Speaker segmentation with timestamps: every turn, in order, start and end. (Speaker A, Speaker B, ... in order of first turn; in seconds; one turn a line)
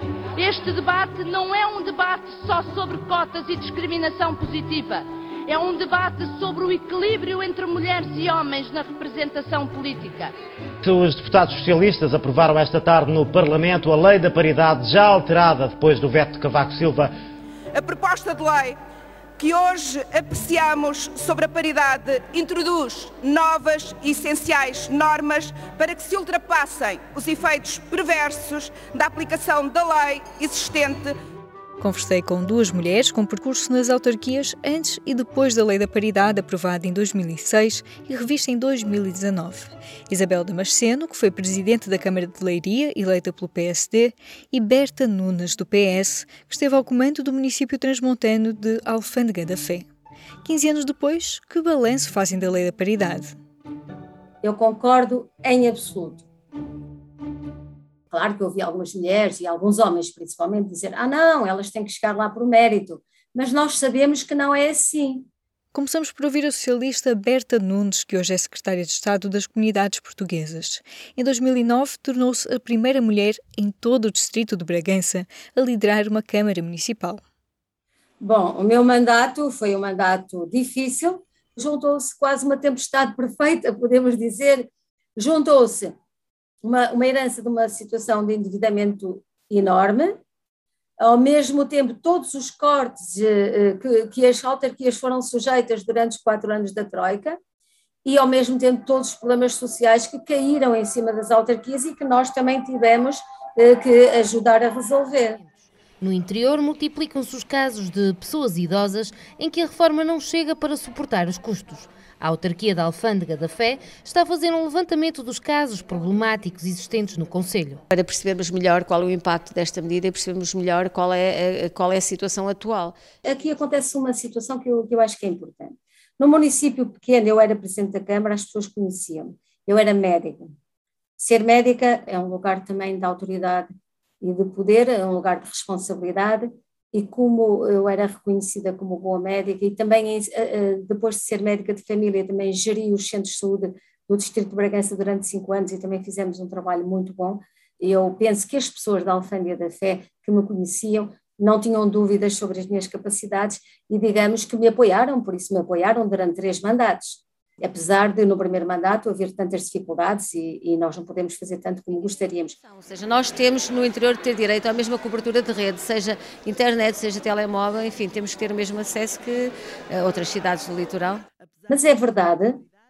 Speaker A: 0.3-10.3
Speaker B: 10.8-17.1
Speaker C: 17.7-18.8
Speaker C: 19.4-31.1
Speaker D: 31.8-49.9
Speaker D: 50.4-53.4
Speaker E: 54.4-56.2
Speaker E: 58.1-65.3
Speaker D: 65.7-77.2
Speaker E: 78.2-85.9
Speaker E: 86.6-90.2
Speaker E: 91.0-97.4
Speaker E: 98.0-105.4
Speaker F: 106.0-117.8
Speaker G: 117.9-123.0
Speaker E: 123.2-130.5
Speaker E: 131.2-133.7
Speaker E: 134.2-162.6
Speaker G: 162.6-171.2
Speaker E: 171.7-172.6